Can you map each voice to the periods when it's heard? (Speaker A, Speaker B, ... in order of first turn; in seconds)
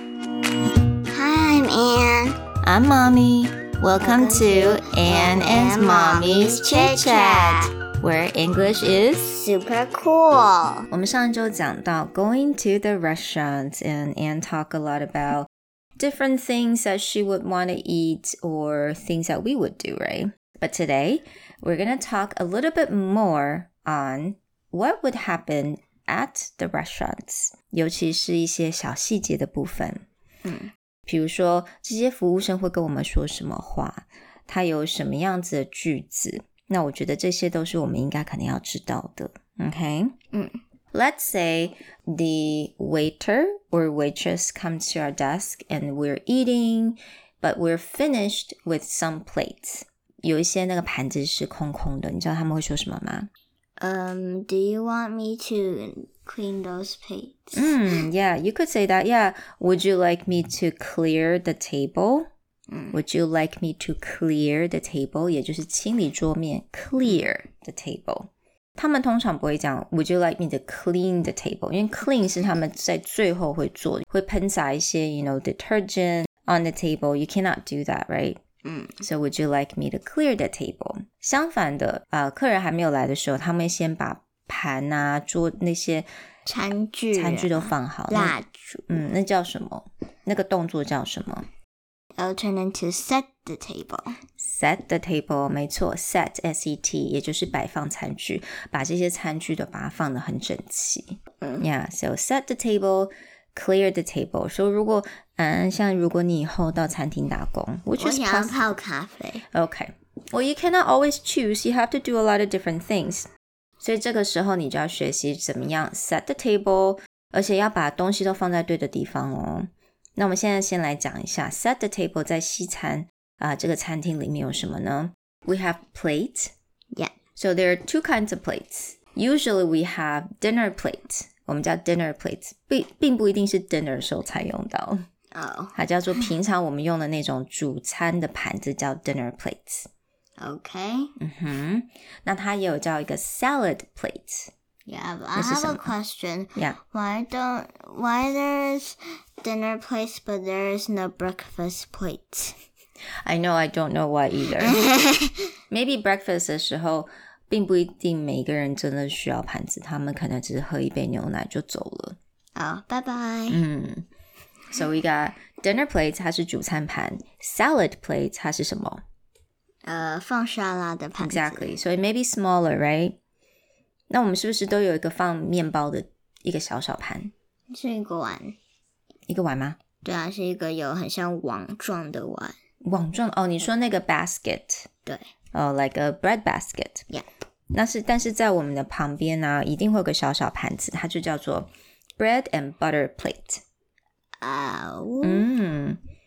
Speaker A: 1.1-2.4, 4.0-7.7, 9.3-10.9, 30.4-30.7, 40.3-40.6, 53.8-58.0, 62.7-63.0, 78.6-79.0, 86.5-89.0, 92.2-94.1, 108.0-109.4, 135.3-136.3, 140.4-141.1, 144.8-152.6, 154.6-155.5, 162.6-163.6, 169.8-171.7, 177.7-178.6, 180.0-182.6, 194.4-195.4
Speaker B: 2.6-9.4, 10.9-30.0, 31.1-40.1, 40.9-53.3, 57.5-62.3, 62.9-78.4, 79.0-86.1, 87.1-88.3, 88.9-91.5, 94.4-108.5, 109.5-113.3, 113.8-126.5, 127.3-135.0, 135.7-139.9, 141.2-144.5, 145.3-145.9, 153.2-154.8, 155.7-162.2, 163.5-164.1, 164.7-169.0, 171.2-173.2, 174.1-177.3, 179.3-179.8, 182.8-184.9, 185.5-187.1, 187.7-193.6, 195.2-196.0